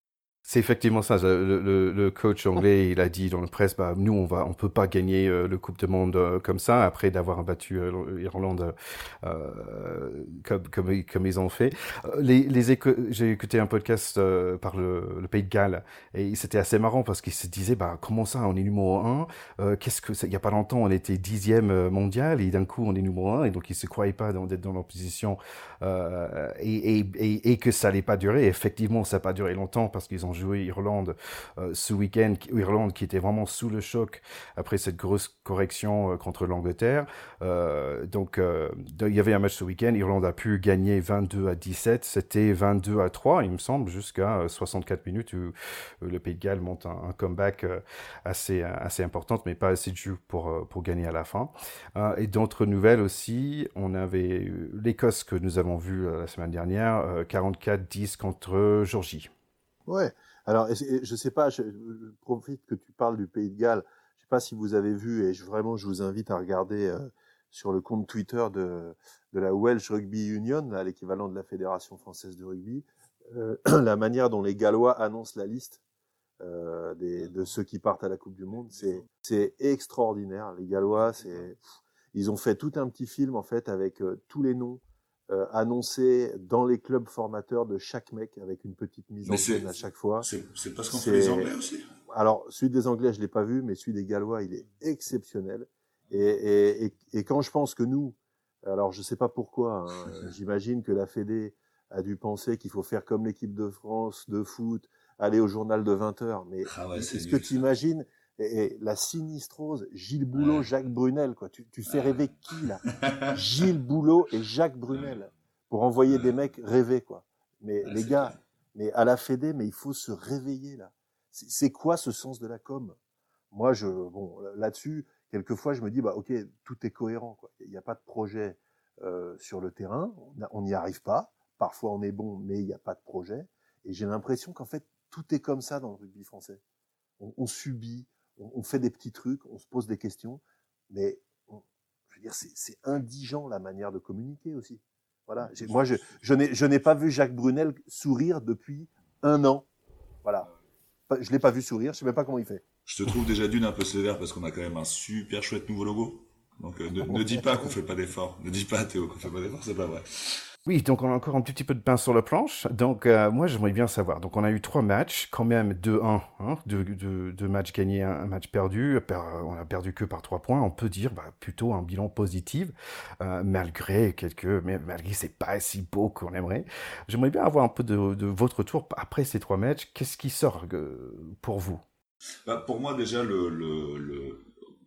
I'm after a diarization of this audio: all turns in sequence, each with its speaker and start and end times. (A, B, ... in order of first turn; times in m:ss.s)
0:00.5-0:59.3 A
0:59.9-1:15.8 B
1:16.4-1:21.6 B
1:22.1-1:30.3 B
1:29.3-1:29.7 C
1:30.2-1:31.9 C
1:30.9-1:31.5 B
1:32.1-2:03.0 B
1:46.6-1:47.7 C
1:50.3-1:50.7 C
1:51.9-1:52.2 C
1:52.8-1:53.4 C
1:56.1-1:56.4 C
1:57.8-1:58.4 C
2:03.5-2:16.6 B
2:17.2-2:29.7 B
2:25.5-2:26.0 C
2:31.1-2:32.6 B
2:32.9-2:40.5 C
2:40.7-3:01.8 A
3:02.4-3:04.5 C